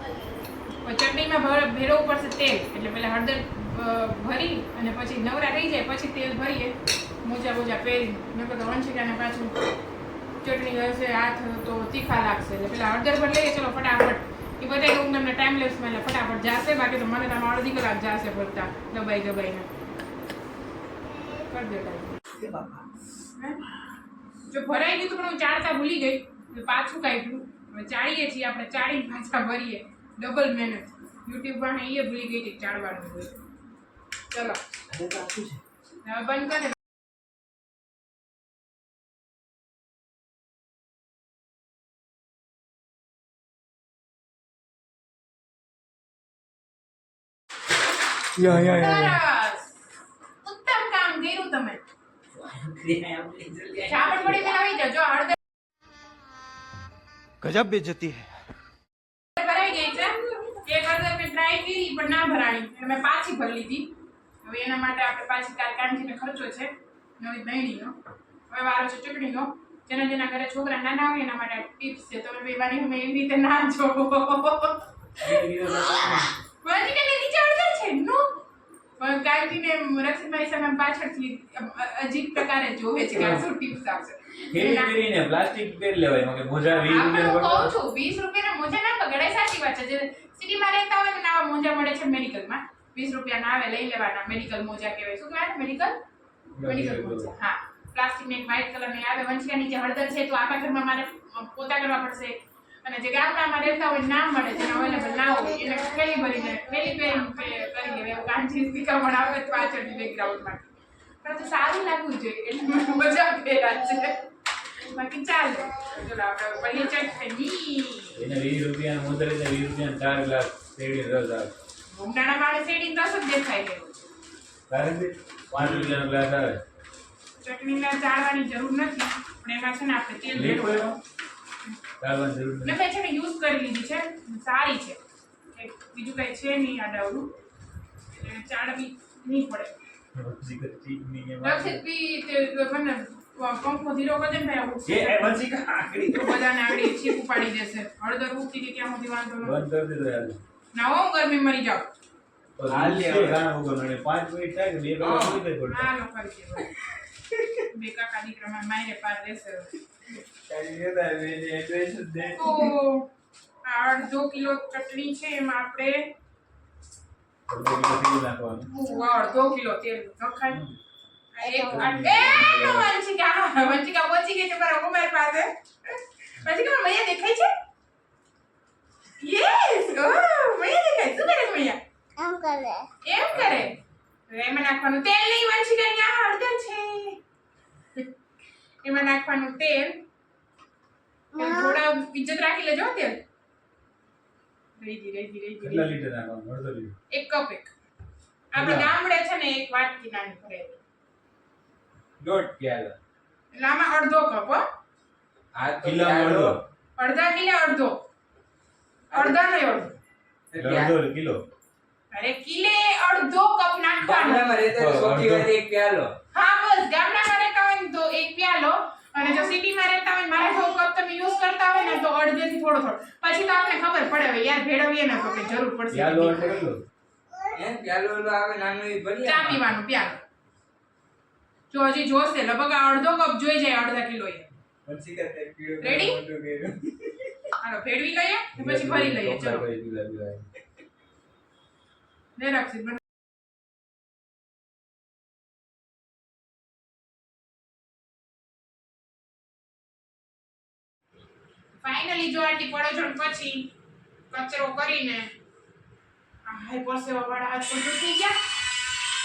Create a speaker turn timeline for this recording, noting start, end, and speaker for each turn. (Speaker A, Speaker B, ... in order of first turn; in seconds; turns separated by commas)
Speaker A: 0.8-9.5, Speaker A: 10.4-19.7, Speaker B: 21.1-21.4, Speaker A: 21.5-22.1, Speaker C: 22.4-22.7, Speaker A: 24.5-33.3, Speaker A: 34.3-34.6, Speaker D: 34.9-35.6, Speaker A: 36.0-36.8, Speaker D: 48.4-48.9, Speaker C: 48.5-48.7, Speaker A: 48.7-49.7, Speaker A: 50.4-51.8, Speaker D: 52.3-54.5, Speaker A: 53.9-55.4, Speaker A: 59.4-63.9, Speaker A: 64.4-67.9, Speaker A: 68.5-75.4, Speaker D: 75.2-76.3, Speaker A: 76.6-78.4, Speaker A: 79.0-85.0, Speaker D: 83.1-83.4, Speaker D: 84.5-87.7, Speaker A: 86.6-96.0, Speaker D: 96.5-97.3, Speaker A: 96.6-110.7, Speaker B: 104.7-107.7, Speaker A: 111.2-114.2, Speaker A: 114.8-118.2, Speaker D: 118.1-121.5, Speaker A: 121.9-123.9, Speaker D: 124.7-126.6, Speaker C: 125.6-126.0, Speaker A: 127.4-131.0, Speaker D: 130.3-131.0, Speaker D: 132.0-132.8, Speaker A: 132.6-135.0, Speaker A: 135.5-137.3, Speaker A: 138.1-139.7, Speaker D: 140.1-141.8, Speaker A: 141.4-145.3, Speaker D: 144.8-146.5, Speaker A: 146.1-149.6, Speaker D: 149.4-150.4, Speaker A: 150.7-151.9, Speaker D: 152.6-155.9, Speaker C: 152.7-153.4, Speaker C: 155.0-155.4, Speaker A: 155.7-156.7, Speaker A: 157.7-159.7, Speaker C: 160.5-162.7, Speaker A: 162.4-163.1, Speaker A: 163.6-166.1, Speaker D: 167.5-168.7, Speaker A: 168.7-170.6, Speaker A: 171.3-177.5, Speaker B: 171.4-171.9, Speaker D: 171.7-172.9, Speaker A: 179.2-181.8, Speaker B: 182.2-182.9, Speaker A: 183.0-183.8, Speaker A: 184.3-187.2, Speaker A: 188.8-190.0, Speaker B: 191.3-191.8, Speaker A: 191.4-193.2, Speaker A: 194.8-195.9, Speaker D: 195.6-196.9, Speaker A: 197.1-197.7, Speaker A: 198.5-200.8, Speaker D: 198.5-198.9, Speaker C: 202.2-202.6, Speaker D: 202.6-202.9, Speaker A: 203.5-204.6, Speaker C: 205.5-206.6, Speaker D: 205.8-206.6, Speaker A: 207.0-207.9, Speaker C: 209.1-209.4, Speaker A: 209.1-209.9, Speaker C: 210.5-210.9, Speaker D: 210.6-211.4, Speaker A: 212.1-214.5, Speaker C: 214.0-216.1, Speaker D: 214.7-215.5, Speaker A: 216.3-226.5, Speaker B: 225.2-225.6, Speaker D: 225.9-226.8, Speaker B: 227.3-227.7, Speaker C: 227.5-229.6, Speaker A: 229.2-230.2, Speaker A: 231.7-234.5, Speaker C: 234.8-237.3, Speaker A: 235.8-236.2, Speaker A: 237.6-239.7, Speaker D: 238.5-240.4, Speaker A: 242.4-243.0, Speaker A: 251.8-253.7, Speaker A: 254.3-255.3, Speaker A: 256.5-258.4